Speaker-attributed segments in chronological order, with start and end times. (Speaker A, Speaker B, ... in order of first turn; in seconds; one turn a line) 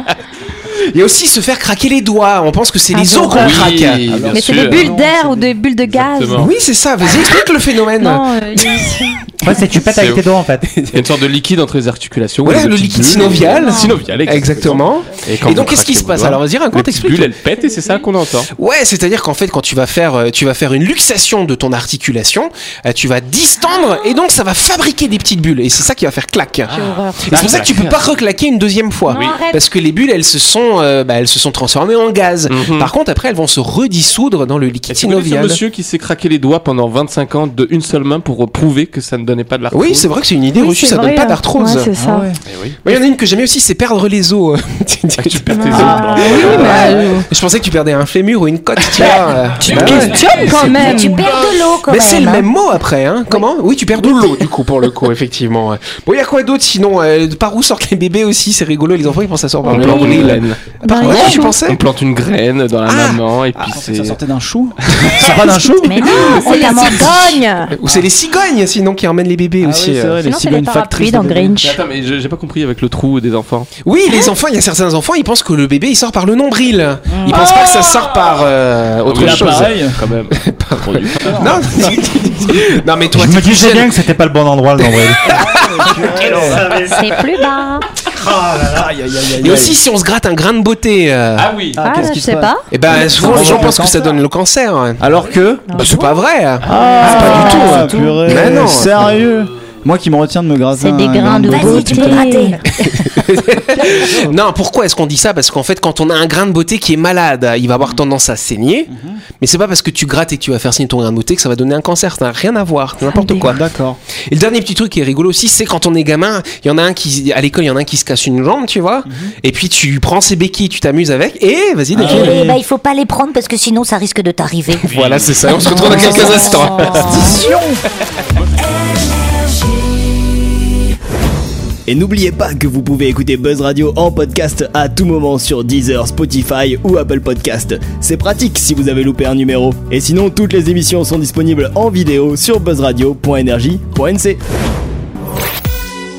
Speaker A: 0.9-4.0
Speaker B: 2.9-3.7
Speaker C: 3.4-4.9
Speaker D: 4.1-5.5
Speaker B: 4.2-6.5
Speaker C: 5.9-6.5
Speaker A: 6.3-8.9
Speaker B: 8.0-9.3
Speaker E: 9.4-10.8
Speaker C: 9.9-10.2
Speaker A: 10.7-11.0
Speaker C: 10.9-18.5
Speaker A: 12.4-17.4
Speaker B: 13.4-14.0
Speaker B: 17.6-18.0
Speaker A: 18.6-26.7
Speaker C: 26.7-28.0
Speaker B: 26.7-27.3
Speaker A: 27.3-35.6
Speaker B: 29.1-29.6
Speaker C: 29.1-29.4
Speaker C: 32.5-32.9
Speaker C: 34.9-40.1
Speaker A: 39.7-41.9
Speaker B: 40.5-42.3
Speaker D: 42.0-42.4
Speaker C: 42.5-42.8
Speaker A: 42.8-50.9
Speaker C: 45.2-47.1
Speaker B: 45.5-47.3
Speaker D: 45.8-46.8
Speaker F: 49.0-49.2
Speaker C: 49.6-50.9
Speaker B: 49.7-51.4
Speaker D: 49.7-50.1
Speaker F: 50.6-52.5
Speaker A: 51.9-61.8
Speaker B: 59.6-61.6
Speaker C: 59.7-64.2
Speaker A: 62.9-63.7
Speaker D: 63.7-66.3
Speaker B: 65.8-67.8
Speaker F: 66.1-67.4
Speaker A: 67.7-70.2
Speaker D: 69.6-71.7
Speaker B: 70.2-71.8
Speaker C: 71.6-73.7
Speaker A: 73.8-84.0
Speaker C: 79.1-81.6
Speaker D: 79.2-80.0
Speaker D: 81.2-82.0
Speaker E: 83.1-85.3
Speaker A: 85.2-87.1
Speaker D: 85.3-86.6
Speaker C: 86.2-86.6
Speaker E: 86.5-86.8
Speaker B: 86.8-87.8
Speaker F: 86.9-87.8
Speaker E: 88.1-89.0
Speaker D: 88.7-89.8
Speaker A: 89.4-91.5
Speaker C: 91.4-91.9
Speaker D: 91.8-94.2
Speaker B: 91.8-93.6
Speaker A: 92.7-95.0
Speaker D: 95.0-95.7
Speaker B: 95.7-96.2
Speaker A: 95.8-99.1
Speaker D: 96.7-102.3
Speaker B: 96.7-98.2
Speaker F: 97.0-97.6
Speaker B: 100.8-103.1
Speaker F: 101.5-102.6
Speaker A: 103.0-113.6
Speaker D: 108.9-109.2
Speaker D: 113.4-114.0
Speaker A: 114.3-122.4
Speaker D: 121.9-122.6
Speaker F: 122.0-124.8
Speaker A: 124.8-127.5
Speaker C: 124.9-125.5
Speaker B: 125.9-127.3
Speaker D: 126.9-127.8
Speaker G: 131.9-144.4